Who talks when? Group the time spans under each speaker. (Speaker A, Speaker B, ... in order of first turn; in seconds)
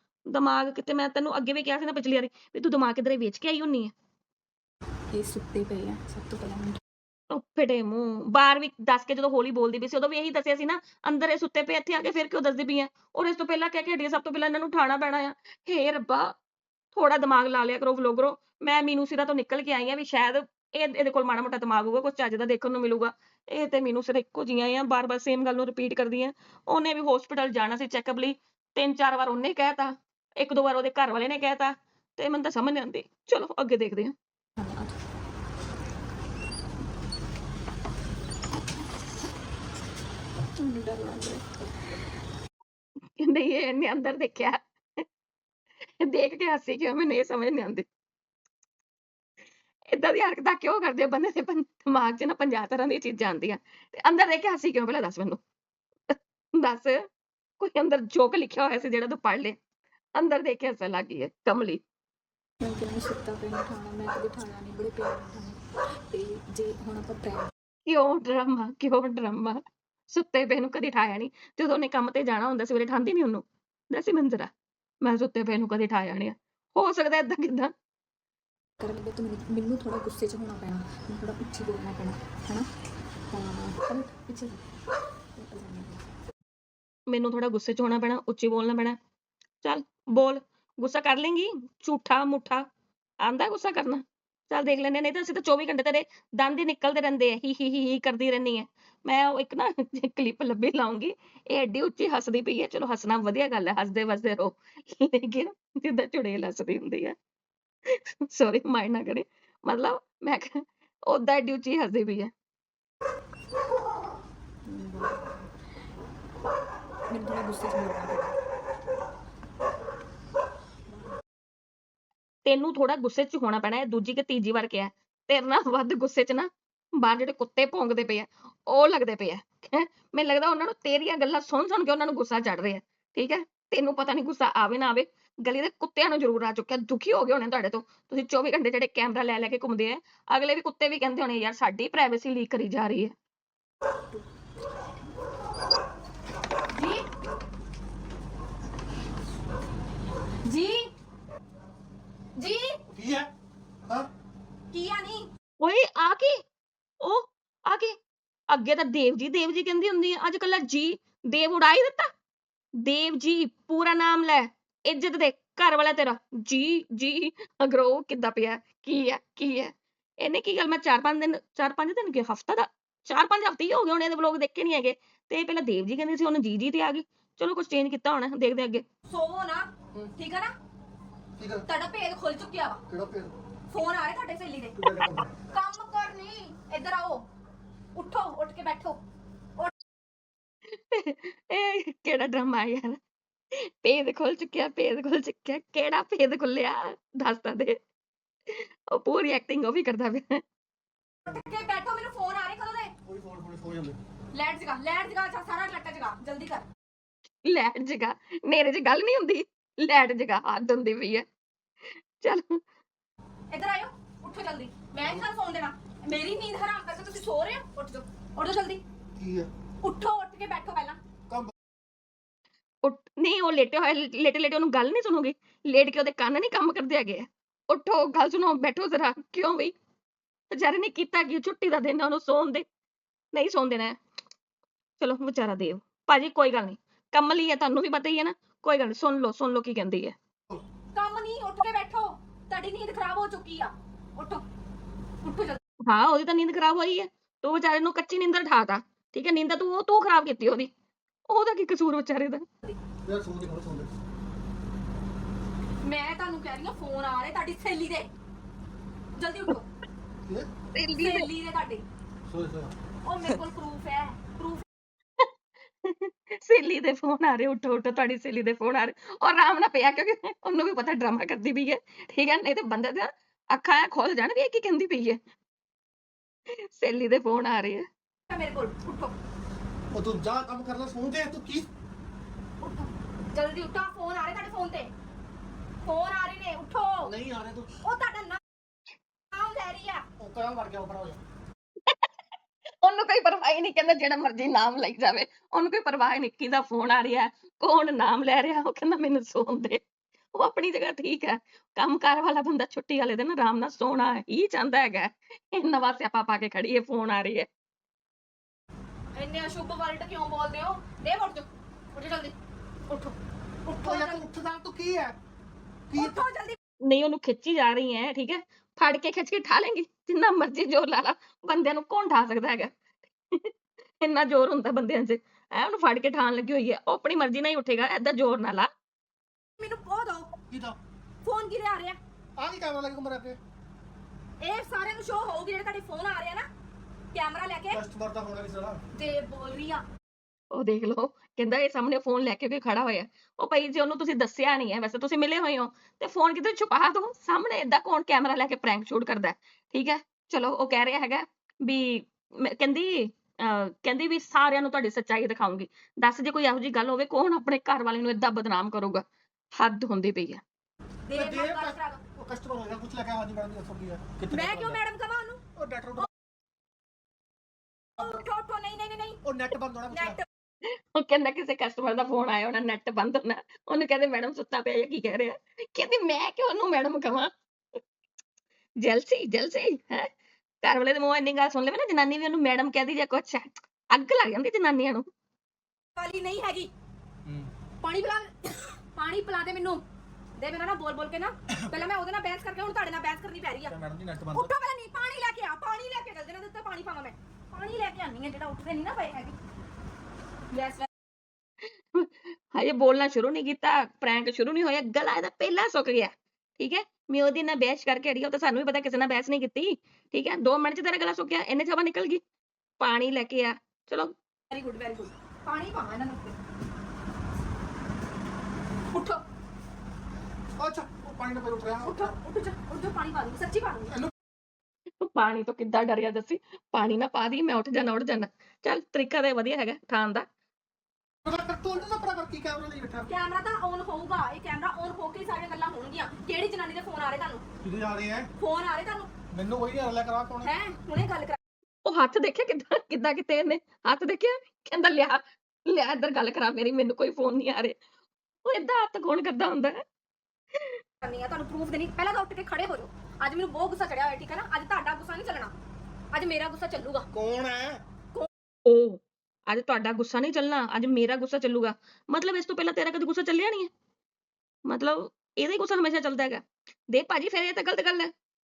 Speaker A: 0.3-3.9, 7.3-16.3, 16.9-34.1, 43.2-45.0, 46.0-47.9, 49.9-55.4, 56.1-57.1, 57.6-59.6, 60.2-61.8, 67.9-74.5, 75.0-77.7, 87.1-89.0, 89.6-92.7, 93.2-107.2, 107.9-112.3, 122.5-143.1, 155.6-156.4, 157.0-158.0, 158.5-162.1, 162.8-178.8, 190.7-193.0, 193.5-197.8, 198.5-200.4, 207.4-211.3, 212.2-212.6, 222.8-229.7, 230.5-232.7, 233.3-234.0, 235.0-240.1, 245.9-250.7, 251.3-252.5, 260.8-261.3, 265.8-275.2, 276.5-277.9, 292.8-299.8, 300.4-307.5, 316.8-322.7, 323.3-328.7, 340.5-359.0, 359.6-360.4, 370.6-377.8, 378.8-380.1, 380.6-385.1, 401.9-412.2, 412.8-414.1, 425.0-430.3, 441.9-447.8, 448.4-449.8, 450.5-450.8, 458.7-463.7, 464.7-468.1
Speaker B: 5.1-6.8, 34.6-35.0, 40.6-41.5, 62.6-65.6, 66.1-67.5, 78.8-82.7, 83.3-84.6, 85.4-86.0, 114.7-115.5, 117.1-118.3
Speaker C: 146.7-147.0, 150.5-150.9, 152.4-152.8, 154.7-155.3, 179.1-180.5, 181.7-182.8, 183.7-184.9, 185.5-187.2, 188.0-189.0, 201.3-202.9, 204.3-206.7, 213.5-218.8, 219.8-221.0, 240.9-244.4, 245.2-245.6, 255.8-258.1, 259.2-259.7, 260.9-261.9, 263.1-264.6, 278.3-279.1, 282.6-284.9, 285.9-287.1, 287.8-288.4, 289.3-290.1, 309.1-312.4, 312.9-314.2, 316.0-316.6, 329.6-330.3, 331.2-332.0, 334.4-336.5, 337.1-337.8, 338.9-339.8, 361.1-362.0, 364.3-365.4, 368.0-369.2, 369.9-370.2, 386.0-386.7, 387.8-389.8, 390.4-393.7, 394.3-399.4, 400.5-400.9, 414.5-416.4, 418.9-419.2, 421.8-423.9, 433.1-437.4, 438.4-439.1, 440.4-441.4, 451.0-455.5, 456.1-457.1
Speaker D: 152.9-153.3, 181.4-181.7, 182.9-183.3, 184.8-185.3, 203.1-204.0, 219.2-219.5, 253.0-253.9, 262.3-262.7, 279.9-281.7, 287.0-287.7, 290.2-291.2, 313.7-315.1, 315.9-316.2, 330.5-330.8, 332.4-333.4, 337.7-338.8, 361.1-364.8, 365.6-366.1, 368.0-368.2, 369.2-370.2, 393.7-394.5, 420.6-422.1, 431.2-433.1, 437.6-438.3, 439.3-440.5, 457.1-457.8